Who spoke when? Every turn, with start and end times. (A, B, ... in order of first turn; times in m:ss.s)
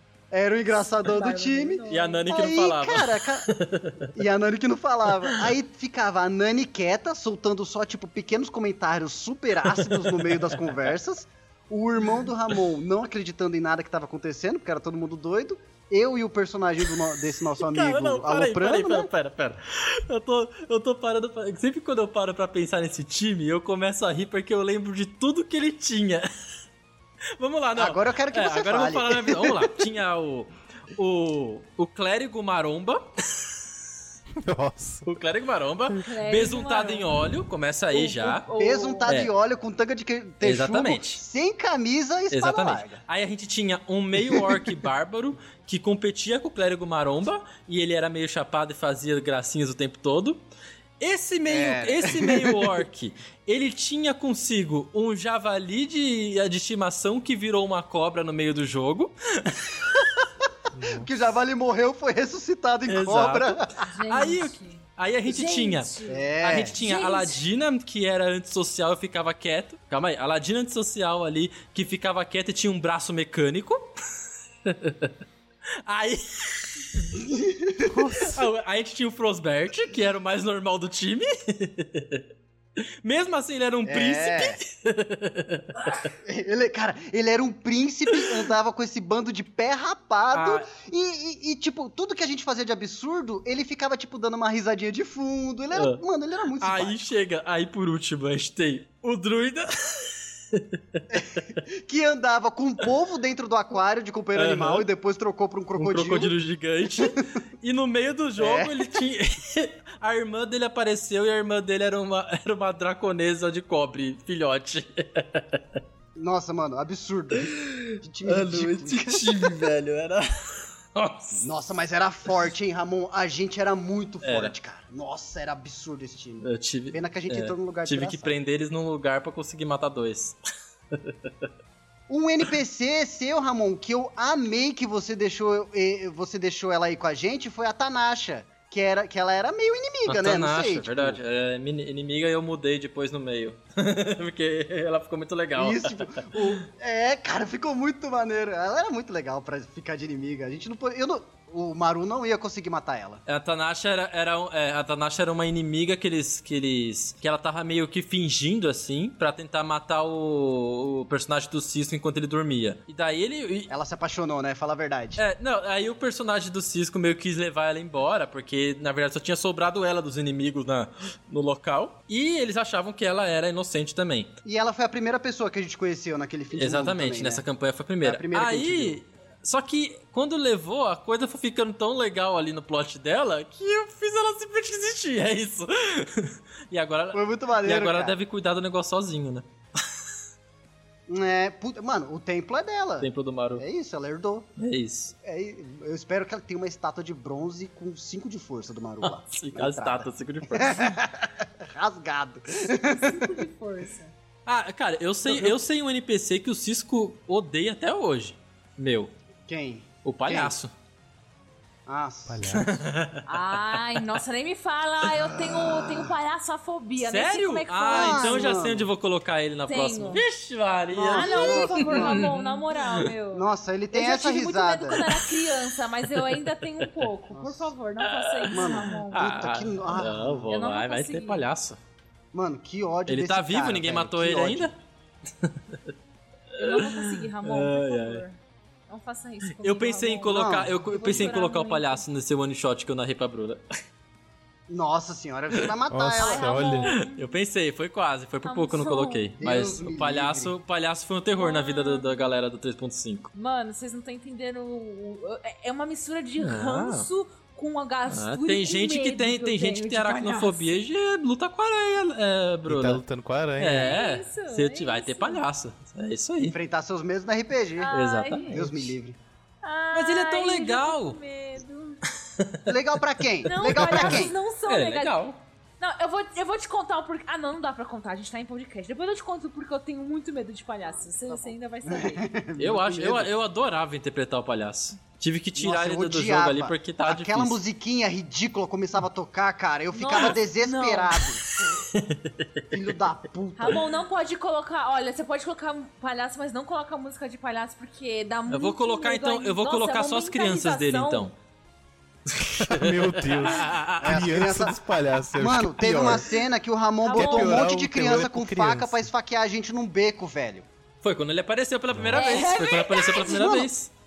0:00.3-0:03.5 A
0:01.0-0:02.2 B
0:01.9-0:04.1 C
0:04.1-0:19.1 A
0:09.7-0:10.6 C
0:17.6-0:26.3 C
0:27.4-0:33.6 C
0:27.8-0:29.7 A
0:34.4-0:35.0 D
0:35.0-0:38.4 C
0:35.9-0:37.1 B
0:37.9-0:39.2 B
0:38.5-0:43.0 A
0:39.0-0:39.3 C
0:40.4-0:41.2 C
0:42.3-0:50.4 C
0:44.2-0:44.6 A
0:51.0-0:59.8 C
0:51.5-0:52.7 A
1:00.7-1:01.1 D
1:00.9-1:03.8 A
1:02.9-1:14.0 C
1:03.9-1:07.4 B
1:06.1-1:06.8 A
1:14.6-1:15.1 C
1:15.9-1:17.2 C
1:17.2-1:18.3 A
1:17.9-1:22.2 C
1:23.0-1:26.1 C
1:23.8-1:24.6 A
1:26.2-1:37.1 A
1:28.1-1:28.4 C
1:30.3-1:30.7 C
1:35.7-1:36.0 C
1:36.6-1:41.0 C
1:41.1-1:46.3 A
1:44.3-1:44.9 C
1:45.8-1:55.6 C
1:48.4-1:48.8 A
1:56.2-1:59.7 A
1:58.2-2:01.5 C
2:01.4-2:08.3 A
2:04.2-2:04.5 C
2:06.4-2:10.4 C
2:10.9-2:11.5 C
2:12.1-2:21.2 A
2:20.0-2:26.5 C
2:25.6-2:33.2 A
2:33.3-2:43.7 C
2:43.7-2:45.2 A
2:45.2-2:54.3 C
2:54.4-2:57.4 A
2:56.5-3:09.4 C
2:58.0-2:59.0 A
3:07.1-3:08.2 A
3:11.1-3:14.5 A
3:13.0-3:13.6 C
3:14.6-3:15.1 C
3:15.2-3:23.4 A
3:19.0-3:20.9 C
3:22.8-3:24.1 B
3:24.4-3:29.1 C
3:25.2-3:25.5 A
3:29.5-3:30.6 A
3:30.0-3:30.7 C
3:31.9-3:32.8 A
3:32.3-3:32.7 D
3:32.5-3:33.2 C
3:33.2-3:38.6 B
3:37.0-3:43.1 C
3:37.9-3:38.9 A
3:39.7-3:40.2 B
3:40.9-3:42.3 A
3:41.1-3:49.4 B
3:43.3-3:45.0 A
3:44.9-3:45.4 C
3:46.1-3:46.6 C
3:47.3-3:47.7 A
3:48.0-3:51.8 C
3:48.5-3:50.5 A
3:50.5-3:51.4 B
3:52.3-3:54.7 A
3:53.1-3:54.7 C
3:55.4-3:55.8 C
3:56.5-3:58.2 C
3:56.6-4:02.0 B
3:59.6-4:03.6 C
4:00.3-4:01.4 A
4:04.7-4:06.6 A
4:05.9-4:06.9 D
4:06.2-4:07.3 B
4:07.0-4:13.3 C
4:08.4-4:09.3 B
4:09.4-4:10.5 A
4:11.4-4:12.2 B
4:13.3-4:20.8 B
4:16.4-4:17.1 C
4:18.1-4:23.0 C
4:22.7-4:24.0 D
4:23.6-4:26.6 C
4:23.7-4:25.4 B
4:26.4-4:27.9 A
4:27.8-4:28.6 B
4:27.9-4:28.9 C
4:28.5-4:29.2 A
4:29.6-4:32.0 B
4:29.9-4:31.2 C
4:32.3-4:32.6 C
4:32.6-4:34.3 A
4:33.4-4:35.2 B
4:33.6-4:35.4 C
4:35.8-4:42.2 B
4:41.3-4:43.3 A
4:42.6-4:47.6 C
4:45.6-4:51.4 A
4:49.9-4:51.2 B
4:51.4-4:52.6 C
4:52.7-4:53.8 A
4:53.6-5:01.3 B
4:58.5-5:01.3 C
5:02.3-5:04.2 C
5:02.6-5:06.2 D
5:04.0-5:04.8 A
5:05.4-5:10.7 A
5:07.0-5:07.7 B
5:07.1-5:09.1 D
5:11.0-5:13.9 C
5:12.1-5:13.5 B
5:13.2-5:13.7 A